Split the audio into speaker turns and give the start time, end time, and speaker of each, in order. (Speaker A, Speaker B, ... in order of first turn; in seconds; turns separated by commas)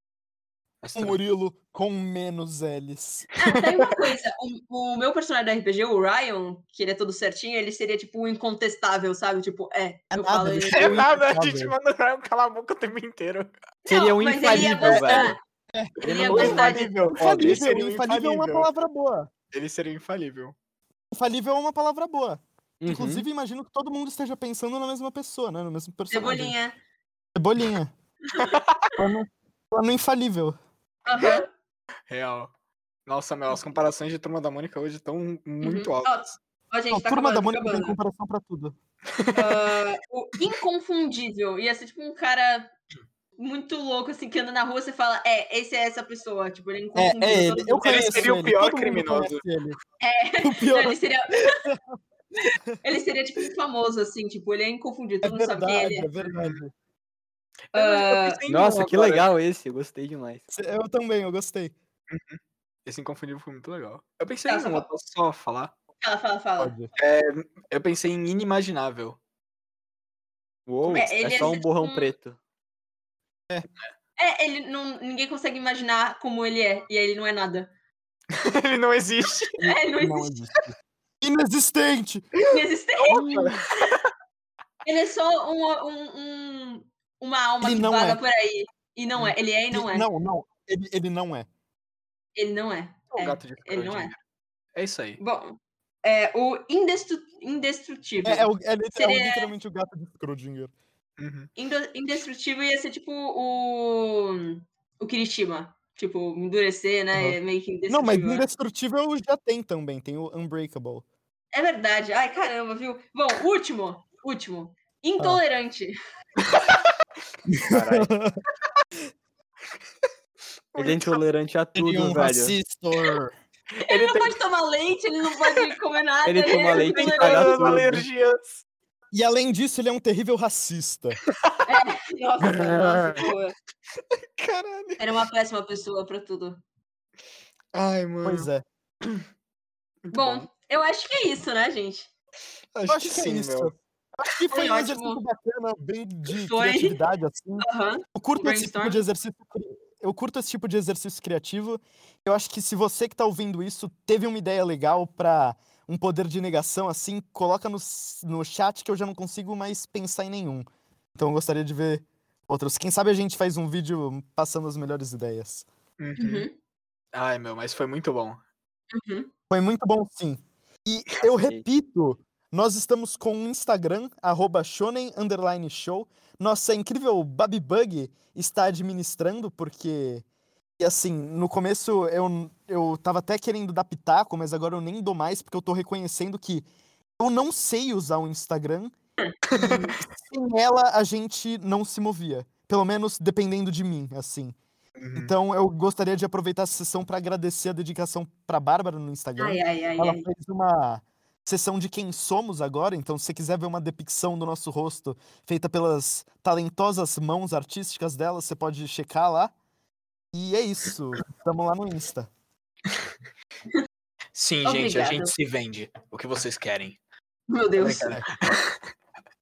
Speaker A: 0.8-1.2, Speaker B: 0.9-3.3, Speaker C: 3.4-11.1, Speaker A: 3.4-4.1, Speaker B: 10.1-11.7, Speaker A: 10.7-13.5, Speaker C: 13.8-15.4, Speaker D: 13.9-15.4, Speaker A: 14.5-14.9, Speaker B: 14.6-19.3, Speaker C: 16.0-17.1, Speaker D: 16.0-17.7, Speaker A: 16.1-18.7, Speaker A: 19.5-20.5, Speaker B: 21.1-26.5, Speaker D: 22.8-23.2, Speaker C: 26.1-26.8, Speaker B: 27.3-27.9, Speaker A: 28.4-28.9, Speaker B: 29.0-30.6, Speaker C: 31.1-31.5, Speaker A: 32.1-32.5, Speaker A: 33.0-36.2, Speaker C: 35.6-38.0, Speaker B: 36.9-38.8, Speaker A: 39.1-39.5, Speaker C: 39.3-42.7, Speaker C: 43.4-48.3, Speaker B: 46.9-49.8, Speaker A: 47.8-49.4, Speaker C: 50.0-51.6, Speaker B: 50.4-51.8, Speaker C: 52.8-56.1, Speaker B: 55.2-56.7, Speaker A: 57.7-59.3, Speaker C: 57.7-58.4, Speaker D: 58.5-60.4, Speaker B: 60.5-61.7, Speaker A: 62.1-65.7, Speaker C: 64.5-64.8, Speaker C: 66.0-66.7, Speaker B: 66.6-66.9, Speaker A: 67.0-69.2, Speaker D: 70.7-72.4, Speaker C: 70.9-72.1, Speaker C: 74.2-77.7, Speaker A: 78.3-79.6, Speaker C: 79.6-80.3, Speaker B: 79.6-82.3, Speaker C: 82.5-83.5, Speaker A: 83.0-83.6, Speaker D: 83.1-83.6, Speaker C: 84.8-90.0, Speaker B: 87.6-88.2, Speaker B: 89.7-91.5, Speaker C: 92.3-94.1, Speaker A: 93.1-94.2, Speaker A: 94.7-95.2, Speaker C: 95.2-99.5, Speaker B: 98.2-100.7, Speaker A: 101.2-101.5, Speaker C: 101.5-108.4, Speaker B: 107.1-111.0, Speaker C: 111.5-115.9, Speaker B: 117.5-118.3, Speaker D: 117.6-118.1, Speaker A: 120.7-121.2, Speaker D: 120.8-122.5, Speaker B: 121.8-123.3, Speaker A: 123.8-124.4, Speaker C: 123.8-127.8, Speaker D: 126.2-128.0, Speaker A: 126.7-128.6, Speaker B: 129.1-131.2, Speaker C: 131.7-133.5, Speaker D: 132.6-133.1, Speaker A: 134.4-135.0, Speaker C: 135.0-136.6, Speaker A: 137.7-138.5, Speaker B: 138.2-138.6, Speaker A: 140.1-140.5, Speaker C: 140.1-142.1, Speaker A: 142.7-143.7, Speaker B: 142.8-160.6, Speaker C: 144.5-145.2, Speaker C: 146.4-147.0, Speaker C: 147.6-149.1, Speaker B: 161.2-165.7, Speaker A: 166.0-166.5, Speaker C: 166.2-166.5, Speaker A: 167.1-168.4, Speaker C: 168.9-169.3, Speaker B: 169.5-180.2, Speaker B: 180.8-186.7, Speaker B: 187.2-188.9, Speaker C: 189.2-189.9, Speaker A: 189.5-189.8, Speaker B: 189.5-194.5, Speaker A: 195.0-195.3, Speaker B: 195.1-209.5, Speaker C: 199.4-200.3, Speaker B: 210.3-212.3, Speaker A: 214.3-217.0, Speaker C: 214.6-215.3, Speaker C: 217.5-218.2, Speaker A: 217.8-218.7, Speaker B: 217.8-218.3